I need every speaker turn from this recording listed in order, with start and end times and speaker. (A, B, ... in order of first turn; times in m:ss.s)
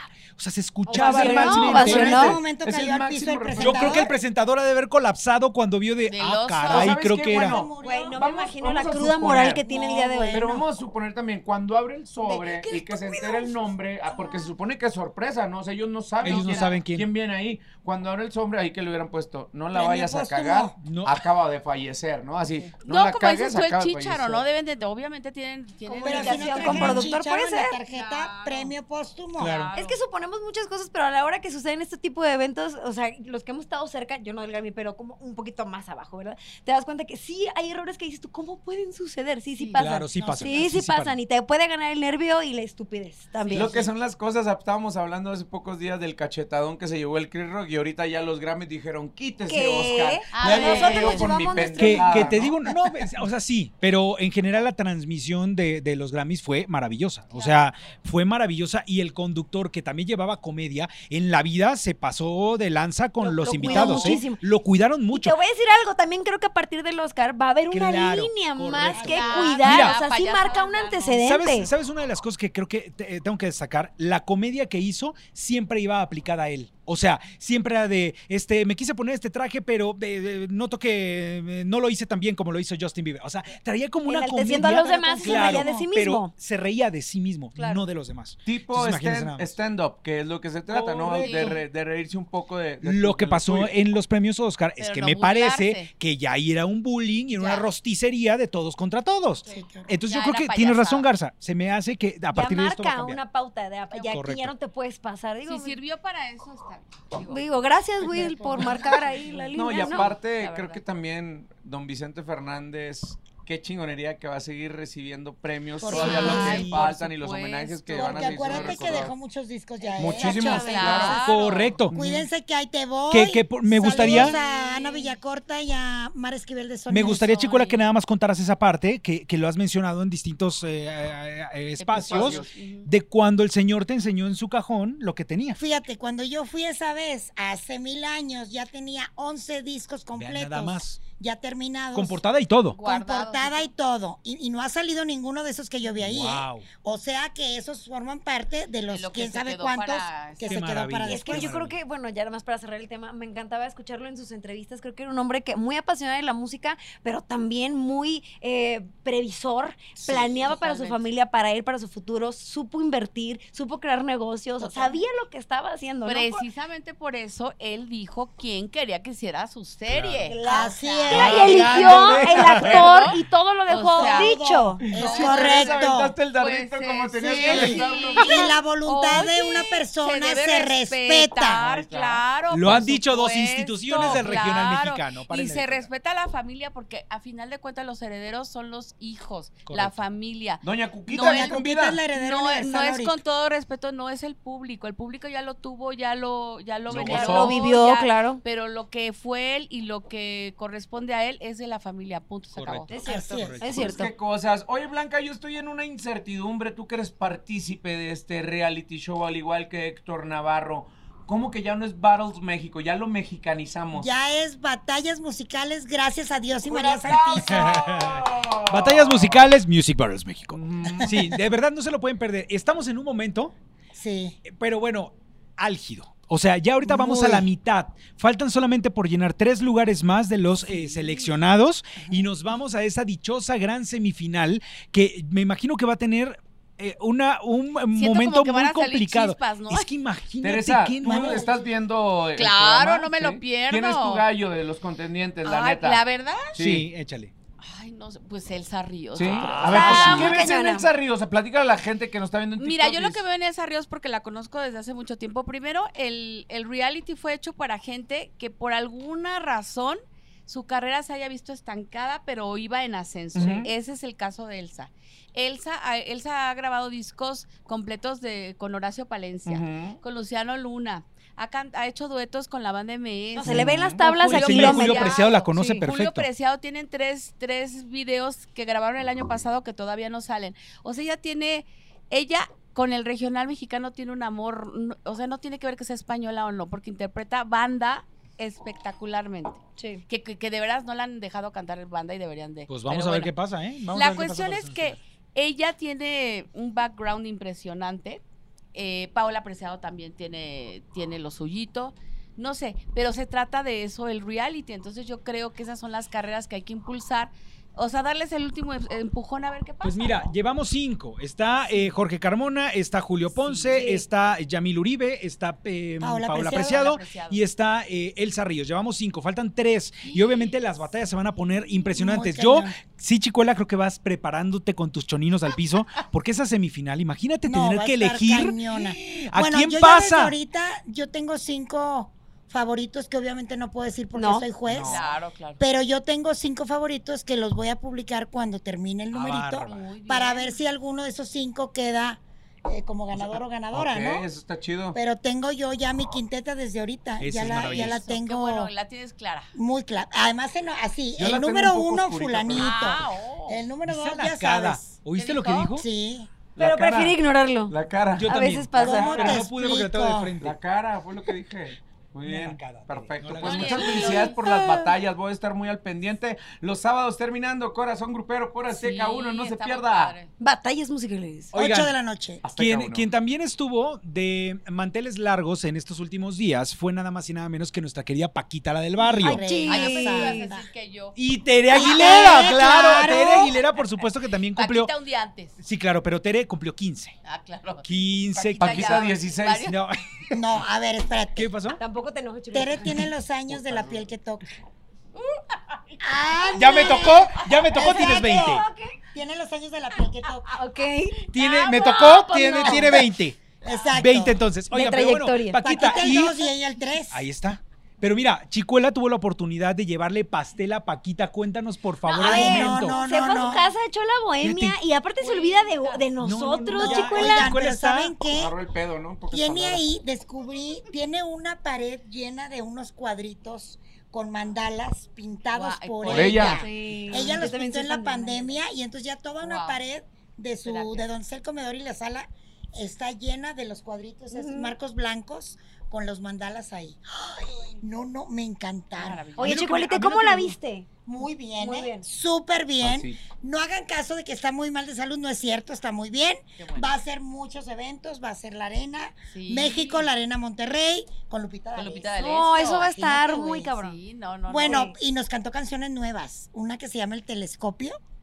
0:00.3-0:02.4 A
0:00.9-0:02.4 B
0:00.9-0:04.1 C
0:01.1-0:04.1 D
0:03.6-0:07.6 A
0:06.0-0:06.9 E
0:06.6-0:09.6 C
0:07.2-0:08.3 D
0:07.8-0:10.4 B
0:09.6-0:10.6 D
0:10.3-0:24.4 C
0:12.2-0:14.5 B
0:16.2-0:17.1 A
0:16.2-0:16.8 E
0:19.7-0:20.7 D
0:20.8-0:21.1 A
0:22.8-0:27.2 E
0:25.8-0:27.8 B
0:26.0-0:29.6 D
0:27.9-0:28.7 E
0:29.4-0:29.7 A
0:29.4-0:30.0 E
0:29.8-0:43.8 B
0:39.6-0:39.8 E
0:39.8-0:41.2 A
0:43.4-0:43.8 E
0:43.5-0:52.6 C
0:49.5-0:52.5 B
0:50.3-0:51.7 E
0:51.8-1:05.4 A
1:03.2-1:04.4 B
1:03.6-1:04.2 D
1:05.1-1:11.7 B
1:07.7-1:10.0 A
1:08.9-1:09.6 D
1:09.0-1:11.2 E
1:11.2-1:29.5 A
1:24.0-1:26.3 B
1:24.6-1:25.8 D
1:28.4-1:33.7 C
1:30.7-1:31.3 A
1:31.2-1:31.6 E
1:32.8-1:43.2 A
1:34.8-1:35.9 E
1:37.4-1:37.7 E
1:39.5-1:39.9 D
1:39.5-1:41.1 E
1:42.3-1:45.8 B
1:43.9-1:44.2 E
1:44.1-1:44.5 A
1:45.4-1:47.4 E
1:47.2-1:50.1 B
1:48.0-1:49.5 D
1:49.5-1:59.1 C
1:49.7-1:50.8 E
1:55.8-1:56.7 D
1:55.9-1:57.2 A
1:55.9-1:58.8 E
1:57.9-2:01.2 D
1:59.8-2:01.2 B
2:00.0-2:01.2 C
2:00.3-2:01.8 E
2:01.1-2:02.3 A
2:01.9-2:07.4 D
2:03.1-2:04.4 A
2:03.8-2:05.2 E
2:06.9-2:15.6 A
2:07.3-2:07.9 E
2:11.8-2:12.9 E
2:11.9-2:12.6 C
2:15.6-2:22.2 D
2:20.1-2:21.0 A
2:21.9-2:22.8 A
2:22.7-2:23.7 E
2:22.8-2:31.5 D
2:26.0-2:26.7 A
2:28.9-2:30.6 E
2:30.5-2:31.7 A
2:31.0-2:46.4 B
2:40.1-2:40.3 D
2:40.4-2:41.0 E
2:44.6-2:44.9 D
2:46.0-2:53.2 E
2:49.9-2:50.3 A
2:50.3-2:54.8 B
2:50.4-2:52.3 D
2:51.1-2:53.0 A
2:53.7-2:54.4 E
2:53.9-2:56.2 D
2:54.8-2:58.5 C
2:54.9-2:55.8 E
2:56.3-3:11.6 E
2:57.2-3:01.7 D
3:01.6-3:02.8 C
3:02.5-3:05.9 A
3:03.9-3:04.4 C
3:09.7-3:10.0 A
3:10.6-3:12.0 C
3:11.1-3:13.2 D
3:12.1-3:22.9 E
3:16.9-3:17.6 C
3:17.0-3:18.4 B
3:22.5-3:23.9 A
3:22.9-3:24.1 B
3:23.0-3:23.7 D
3:23.7-3:34.1 C
3:33.9-3:37.9 D
3:36.6-3:39.4 C
3:37.5-3:43.5 A
3:40.5-3:41.3 C
3:43.9-3:44.4 D
3:44.4-4:01.5 A
3:46.9-3:47.4 D
3:57.9-3:59.9 E
4:00.4-4:06.0 C
4:01.0-4:01.7 D
4:02.4-4:04.3 E
4:05.4-4:06.6 E
4:06.5-4:06.8 C
4:06.6-4:07.3 A
4:07.6-4:10.4 E
4:09.1-4:13.2 C
4:09.2-4:10.2 A
4:09.6-4:10.9 B
4:12.6-4:53.3 E
4:23.3-4:23.7 C
4:29.4-4:30.0 C
4:33.3-4:35.8 B
4:33.4-4:36.3 A
4:49.8-4:50.0 B
4:52.7-4:55.0 A
4:53.9-4:58.2 E
4:58.7-5:10.2 E
5:09.8-5:30.3 A
5:13.2-5:14.0 E
5:16.0-5:16.9 D
5:16.4-5:17.4 E
5:20.0-5:20.8 E
5:21.9-5:22.8 D
5:27.4-5:44.3 D
5:34.1-5:34.4 B
5:34.7-5:35.0 C
5:34.9-5:35.6 E
5:39.1-5:39.8 A
5:39.6-5:40.6 E
5:43.1-5:45.0 C
5:44.9-5:48.7 D
5:47.2-5:48.0 A
5:47.4-5:49.5 E
5:49.5-5:54.9 D
5:51.2-5:52.9 C
5:52.6-5:53.6 E
5:53.8-5:55.8 A
5:55.2-5:55.7 E
5:55.8-5:56.3 D
5:56.6-5:57.2 C
5:56.6-5:57.7 B
5:57.7-5:59.4 C
5:58.1-6:00.6 A
5:58.2-5:59.4 B
5:58.8-6:00.4 D
6:00.4-6:10.2 C
6:02.2-6:04.1 A
6:03.4-6:04.4 E
6:03.9-6:04.9 B
6:08.7-6:10.3 E
6:10.4-6:11.5 B
6:11.5-6:11.9 A
6:11.5-6:12.4 D
6:12.4-6:13.0 C
6:12.6-6:19.4 A
6:19.0-6:20.6 D
6:19.2-6:20.5 B
6:19.6-6:21.2 E
6:21.2-6:24.9 A
6:21.7-6:23.5 D
6:24.5-6:25.6 E
6:25.6-6:27.1 A
6:27.2-6:27.8 E
6:27.8-6:30.6 A
6:28.3-6:29.7 C
6:28.5-6:29.8 E
6:30.3-6:31.5 D
6:31.3-6:31.8 A
6:31.8-6:33.0 B
6:32.5-6:34.5 D
6:33.5-6:34.1 C
6:36.0-6:40.6 D
6:36.5-6:38.6 A
6:36.7-6:37.0 B
6:37.8-6:38.9 B
6:40.5-6:43.1 B
6:41.3-6:43.4 A
6:42.6-6:43.0 D
6:43.6-6:44.4 D
6:43.9-6:46.5 A
6:44.7-6:46.0 B
6:45.6-6:47.3 D
6:47.1-6:53.0 A
6:52.1-6:53.7 D
6:52.1-6:57.5 B
6:54.4-6:54.8 A
6:55.2-6:56.1 E
6:56.2-6:58.1 A
6:56.8-6:58.6 D
6:58.3-6:59.8 C
6:59.3-7:19.3 D
7:05.5-7:07.4 E
7:06.0-7:06.6 C
7:06.4-7:08.6 B
7:09.4-7:09.8 E
7:10.6-7:11.1 E
7:14.3-7:14.8 B
7:19.0-7:19.7 E
7:19.4-7:20.9 B
7:19.4-7:20.6 A
7:21.0-7:33.7 D
7:21.5-7:22.0 B
7:22.8-7:23.2 C
7:26.6-7:26.9 E
7:29.3-7:30.1 E
7:31.7-7:32.9 E
7:32.2-7:34.0 B
7:33.8-7:34.9 E
7:34.5-7:38.0 D
7:34.6-7:34.9 B